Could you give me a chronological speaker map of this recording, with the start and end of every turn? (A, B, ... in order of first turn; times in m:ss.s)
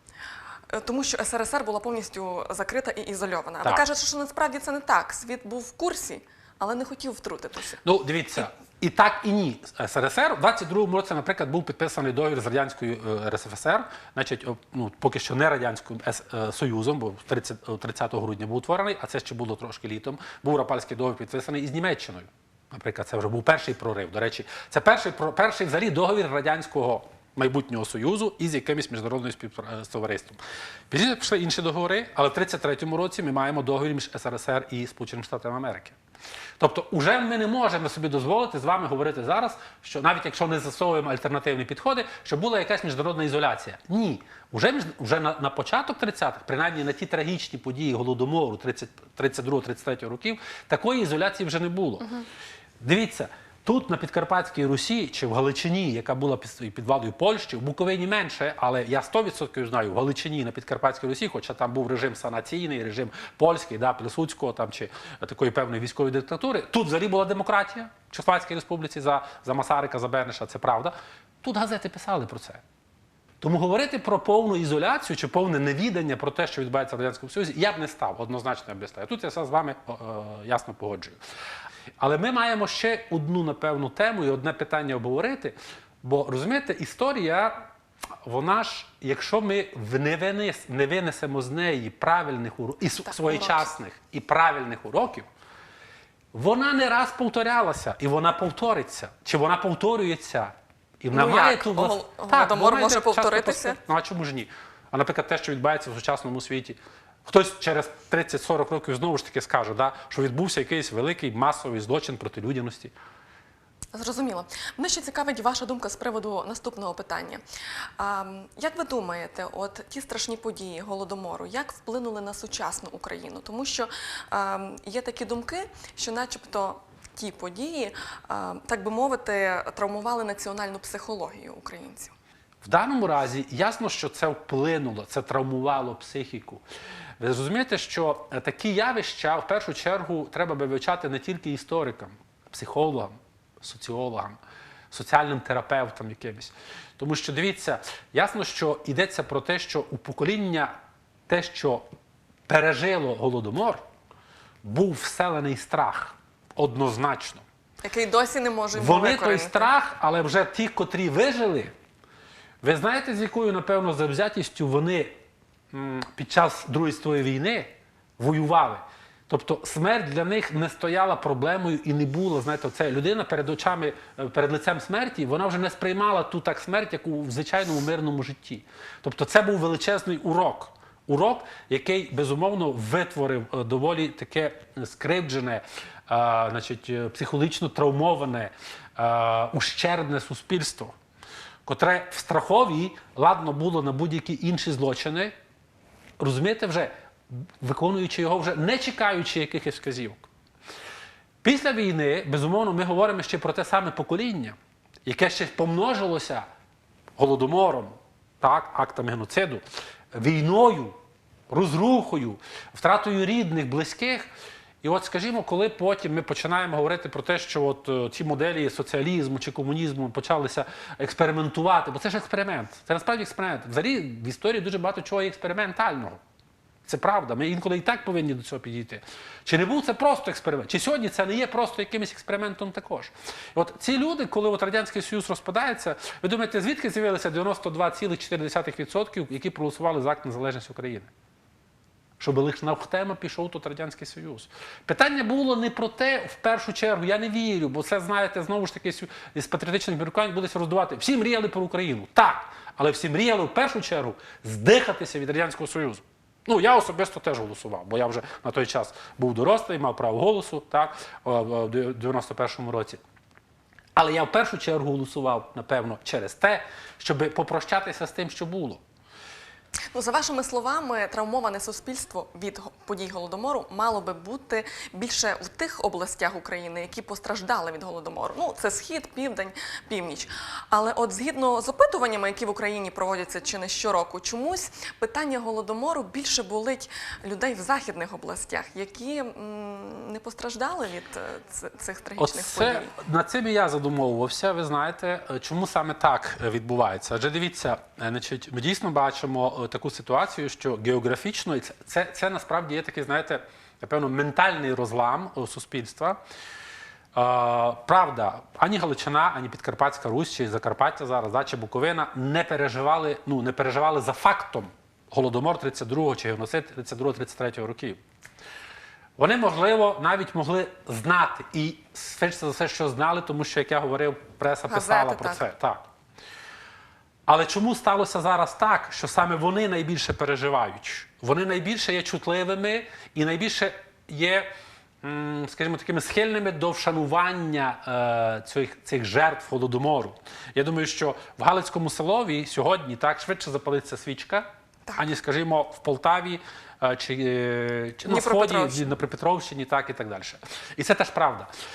0:00.7-0:07.8 A
0:07.8-0:30.4 B
0:30.9-0:36.0 B
0:36.6-0:52.2 B
0:52.8-1:12.6 B
1:13.4-1:21.2 B
1:22.0-1:27.6 B
1:28.2-1:35.3 B
1:33.1-1:33.7 A
1:36.3-1:52.9 B
1:41.1-1:43.8 A
1:53.9-1:57.4 A
1:58.0-2:12.2 A
2:12.6-2:16.6 B
2:17.2-2:24.4 B
2:24.9-2:30.7 B
2:31.3-2:31.9 B
2:32.5-2:33.8 B
2:34.6-2:37.4 B
2:37.8-2:39.7 A
2:38.7-2:41.8 B
2:42.6-2:45.2 B
2:45.7-3:11.0 B
3:11.6-3:15.3 B
3:16.2-3:20.3 B
3:21.4-3:26.4 B
3:27.2-3:29.6 B
3:30.1-3:31.0 B
3:31.5-3:34.3 B
3:34.8-3:46.2 B
3:46.8-4:01.1 B
4:02.2-4:23.0 B
4:24.0-4:28.8 B
4:29.9-4:52.9 A
4:52.2-5:06.2 B
5:07.1-5:18.0 B
5:19.2-5:25.8 B
5:24.7-5:25.4 A
5:27.3-5:34.5 B
5:35.0-5:51.5 B
5:48.1-5:48.9 A